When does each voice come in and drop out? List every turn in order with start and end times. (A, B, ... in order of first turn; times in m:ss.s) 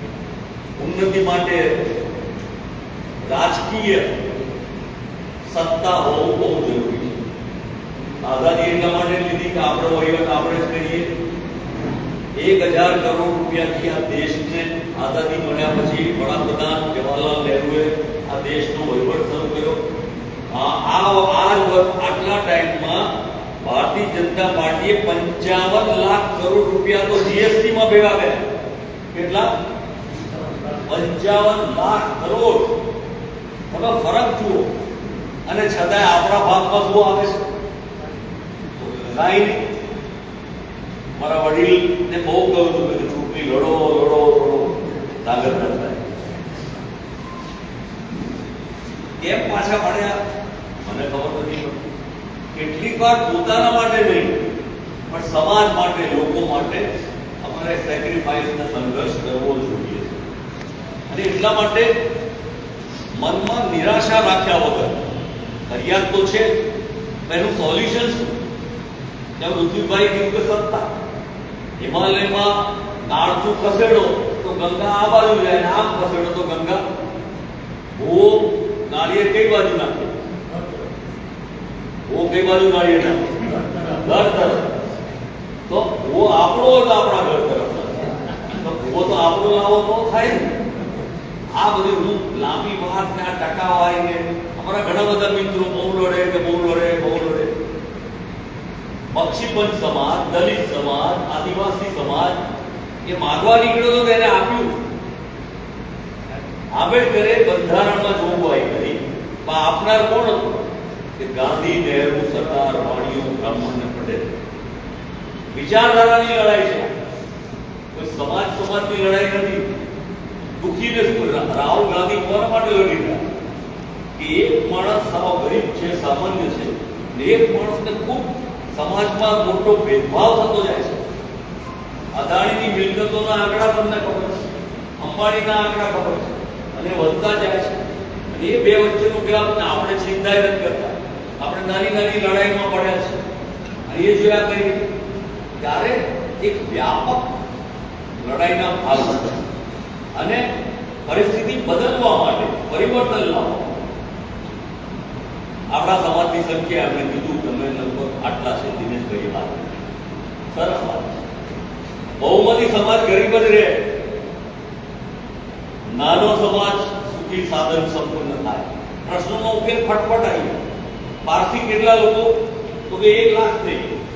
0:00.8-0:01.8 A
0:03.2-0:04.2 A
0:05.5-0:07.2 A
0:08.2-0:11.1 A
0:12.4-0:19.8 A
0:20.5-0:23.1 A
0:23.6-0:28.5 A
0:29.1-0:29.5 A
0:30.8-0:32.8 A
0:33.7-0:34.7 A
0:35.5-0:37.4 A
0:38.8-0:39.6 A
0:41.2-0:46.1 A
0:49.2-0:50.2 A
0:50.8-0:51.9 A
0:52.5-0:54.5 A
0:55.1-0:56.9 A
0:57.4-1:00.2 A
1:01.1-1:01.9 A
1:03.2-1:05.1 A
1:05.7-1:06.5 A
1:07.3-1:08.4 A
1:09.4-1:10.9 A
1:11.8-1:16.8 A
1:18.0-1:20.1 A
1:22.1-1:24.7 A
1:25.7-1:30.6 A
1:31.6-1:37.5 A
1:39.1-1:42.4 A
1:43.0-1:44.8 A
1:46.8-1:50.6 A
1:51.2-1:54.4 A
1:55.5-1:57.0 A
1:57.9-1:59.7 A
2:00.6-2:03.2 A
2:04.2-2:11.0 A
2:12.1-2:14.4 A
2:15.0-2:17.8 A
2:18.3-2:23.2 A
2:23.9-2:24.9 A
2:25.6-2:27.3 A
2:28.2-2:29.4 A
2:30.2-2:30.4 A
2:31.1-2:33.8 A
2:35.7-2:39.7 A
2:40.5-2:41.2 A
2:42.2-2:43.9 A
2:45.9-2:50.6 A
2:51.2-2:52.3 A
2:52.9-2:54.0 A